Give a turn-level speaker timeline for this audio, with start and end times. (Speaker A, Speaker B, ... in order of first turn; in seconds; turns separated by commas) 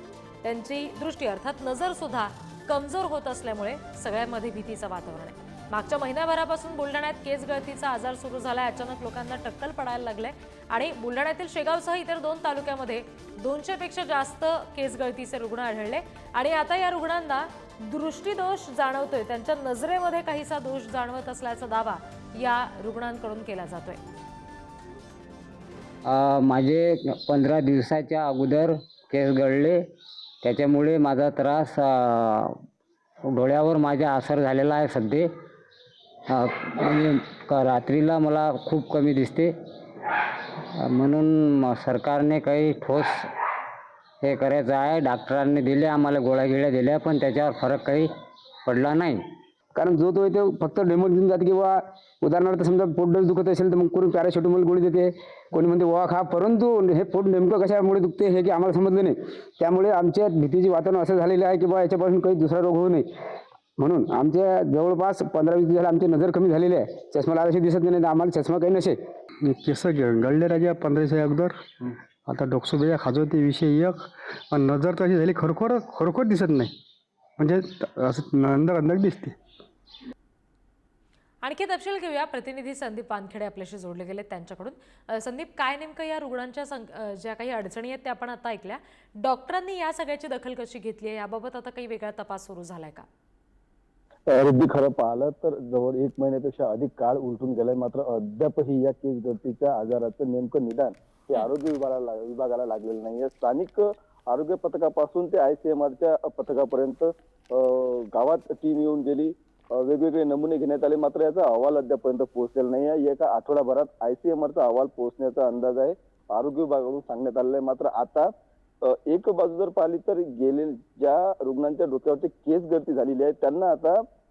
Speaker A: 0.4-24.0, Speaker B: 26.0-29.8, Speaker B: 30.4-32.5, Speaker B: 33.3-35.3, Speaker B: 36.3-39.5, Speaker B: 40.8-43.2, Speaker B: 44.2-48.1, Speaker B: 48.6-49.2, Speaker C: 49.8-63.0, Speaker C: 63.8-69.0, Speaker D: 69.4-71.6, Speaker D: 72.2-76.7, Speaker D: 77.4-79.4, Speaker A: 81.4-93.0, Speaker E: 94.3-118.3, Speaker E: 118.8-124.0